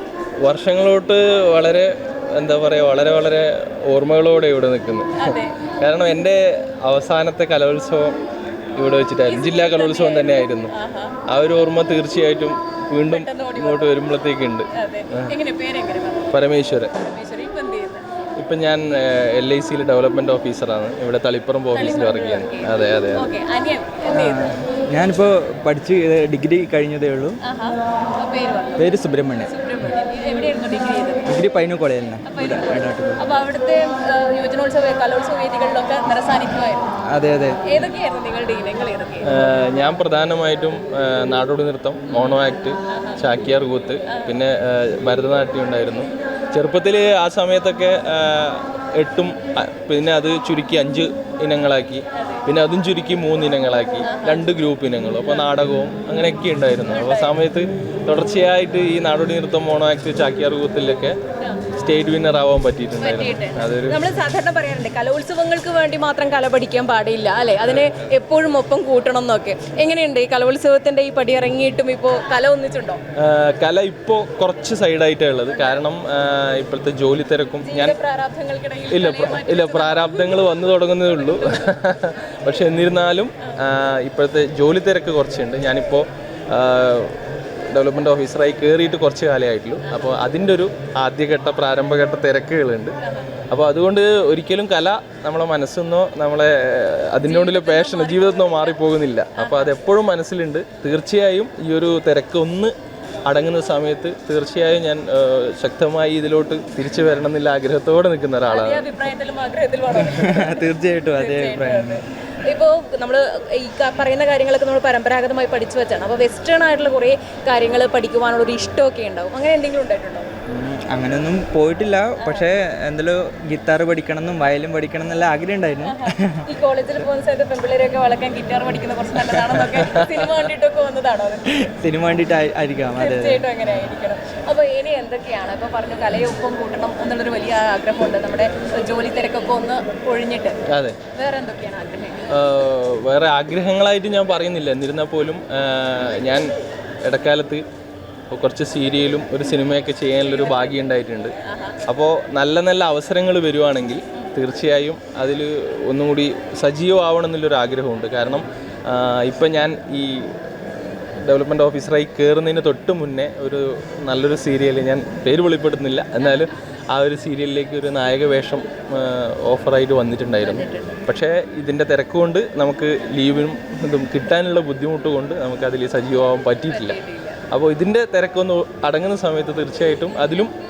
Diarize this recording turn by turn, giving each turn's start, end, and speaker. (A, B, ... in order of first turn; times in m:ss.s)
0:00.4-0:08.2 A
0:05.2-0:05.5 B
0:08.8-0:10.7 A
0:09.3-0:11.2 B
0:11.3-0:15.3 A
0:13.1-0:13.9 B
0:14.7-0:18.0 B
0:16.3-0:16.9 A
0:18.4-0:23.3 A
0:21.7-0:24.5 B
0:24.1-0:27.4 C
0:27.4-0:28.9 B
0:28.8-0:29.5 C
0:29.4-0:31.3 B
0:31.3-0:33.2 C
0:32.2-0:36.9 B
0:37.1-0:37.6 C
0:37.6-0:39.3 B
0:39.3-1:01.2 A
0:42.9-0:43.2 B
0:44.1-0:44.4 B
0:52.2-0:52.4 B
0:54.0-0:54.4 B
0:56.9-0:57.3 B
1:01.8-1:04.1 A
1:03.0-1:13.0 B
1:07.6-1:08.1 A
1:13.2-1:18.0 A
1:17.6-1:20.4 B
1:18.9-1:27.2 A
1:21.4-1:21.7 B
1:27.7-1:33.0 A
1:33.0-1:33.4 B
1:33.5-1:42.7 A
1:37.2-1:38.8 B
1:39.4-1:39.7 B
1:43.3-1:48.9 A
1:48.5-2:00.3 B
1:49.9-1:52.0 C
2:00.5-2:06.4 C
2:02.2-2:02.5 B
2:05.8-2:11.4 B
2:09.3-2:10.4 A
2:11.5-2:13.5 C
2:13.0-2:20.6 B
2:20.7-2:21.0 A
2:21.1-2:22.4 B
2:22.3-2:26.5 A
2:27.0-2:27.6 A
2:28.3-2:31.3 A
2:30.2-2:31.8 B
2:31.9-2:40.3 A
2:41.2-2:57.0 A
2:46.2-2:46.5 B
2:50.4-2:51.0 B
2:56.7-2:57.4 B
2:57.5-3:00.5 A